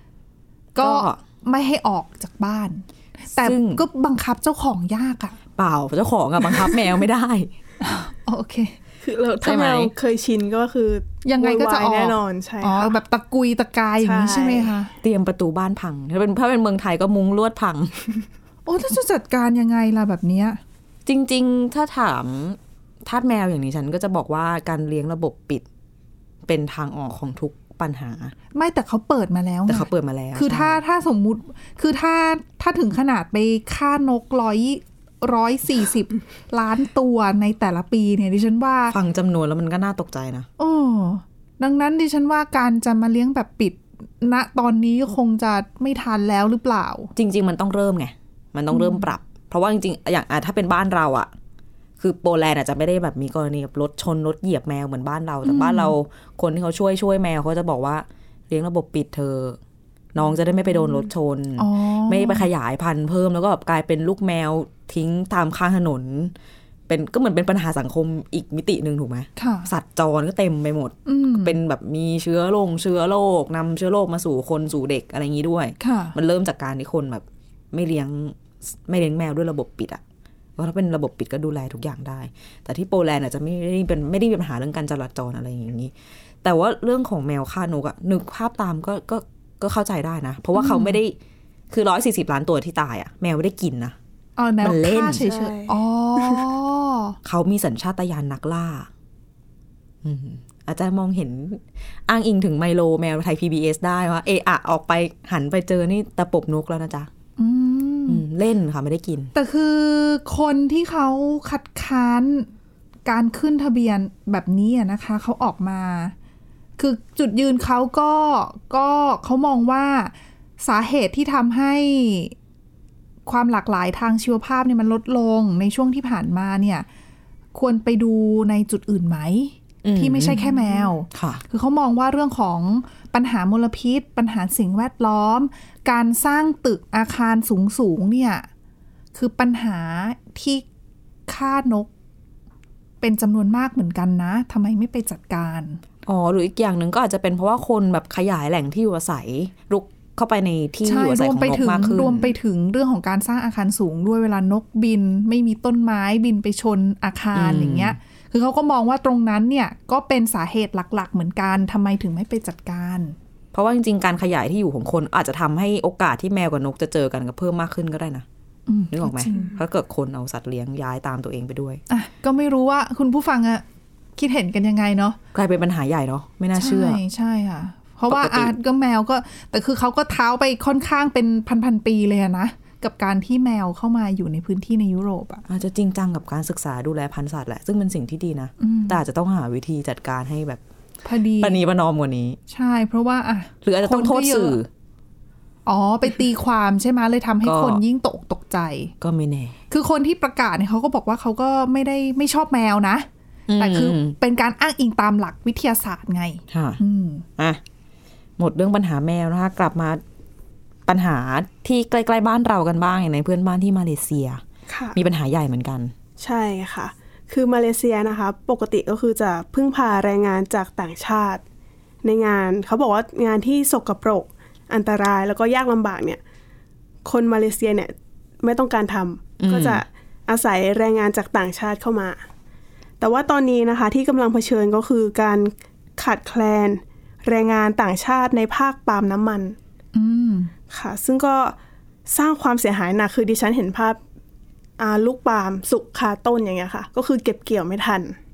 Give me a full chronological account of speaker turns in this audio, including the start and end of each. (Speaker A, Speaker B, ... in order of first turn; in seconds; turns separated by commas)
Speaker A: 0.8-1.2, Speaker B: 0.8-5.4, Speaker A: 3.4-3.8, Speaker A: 5.6-7.5, Speaker B: 7.8-8.8, Speaker C: 9.0-13.0, Speaker A: 9.4-9.9, Speaker B: 11.2-14.9, Speaker C: 14.0-14.8, Speaker A: 15.0-18.1, Speaker B: 18.7-20.6, Speaker A: 21.1-25.6, Speaker A: 26.5-28.3, Speaker B: 28.6-39.0, Speaker A: 29.7-30.8, Speaker A: 38.9-40.5, Speaker B: 40.6-47.1, Speaker A: 47.2-51.3, Speaker B: 48.7-49.1, Speaker A: 52.0-59.6, Speaker B: 55.5-56.0, Speaker A: 60.1-66.3, Speaker B: 61.6-62.5, Speaker A: 66.9-80.0, Speaker B: 69.4-69.7, Speaker B: 71.1-71.6, Speaker B: 75.8-76.2, Speaker A: 80.6-91.2, Speaker B: 90.5-91.0, Speaker A: 91.7-94.0, Speaker B: 94.4-97.2, Speaker A: 94.6-95.2, Speaker C: 95.1-96.5, Speaker A: 97.2-98.9, Speaker A: 100.0-107.1, Speaker B: 107.4-108.2, Speaker A: 108.1-109.3, Speaker B: 109.3-112.5, Speaker B: 113.1-116.1, Speaker B: 116.8-122.4, Speaker B: 123.3-126.9, Speaker B: 127.5-138.5, Speaker A: 129.8-130.4, Speaker C: 130.4-130.7, Speaker A: 131.1-131.4, Speaker B: 139.2-140.7, Speaker B: 141.3-141.9, Speaker B: 143.0-145.8, Speaker A: 146.1-152.3, Speaker B: 150.8-163.2, Speaker A: 157.3-158.0, Speaker A: 163.5-168.2, Speaker B: 168.7-169.6, Speaker A: 168.9-171.8, Speaker B: 171.9-173.6, Speaker B: 174.2-175.2, Speaker A: 175.3-177.0, Speaker B: 176.6-185.4, Speaker A: 178.1-178.5, Speaker A: 185.5-190.6, Speaker B: 188.6-189.0, Speaker B: 191.0-191.6, Speaker A: 191.4-192.4, Speaker B: 192.5-194.6, Speaker A: 193.6-194.7, Speaker B: 195.7-198.9, Speaker A: 197.4-197.8, Speaker A: 199.0-199.6, Speaker B: 199.7-207.2, Speaker A: 203.5-204.2, Speaker A: 206.5-206.8, Speaker A: 208.4-210.0, Speaker A: 210.9-214.4, Speaker C: 214.7-215.0, Speaker A: 214.9-215.9, Speaker C: 216.2-221.4, Speaker C: 222.0-226.2, Speaker C: 227.1-227.9, Speaker C: 228.4-232.2, Speaker A: 229.4-229.8, Speaker C: 233.0-239.6, Speaker B: 239.9-240.5, Speaker C: 240.7-241.6, Speaker C: 242.1-244.0, Speaker C: 244.8-248.2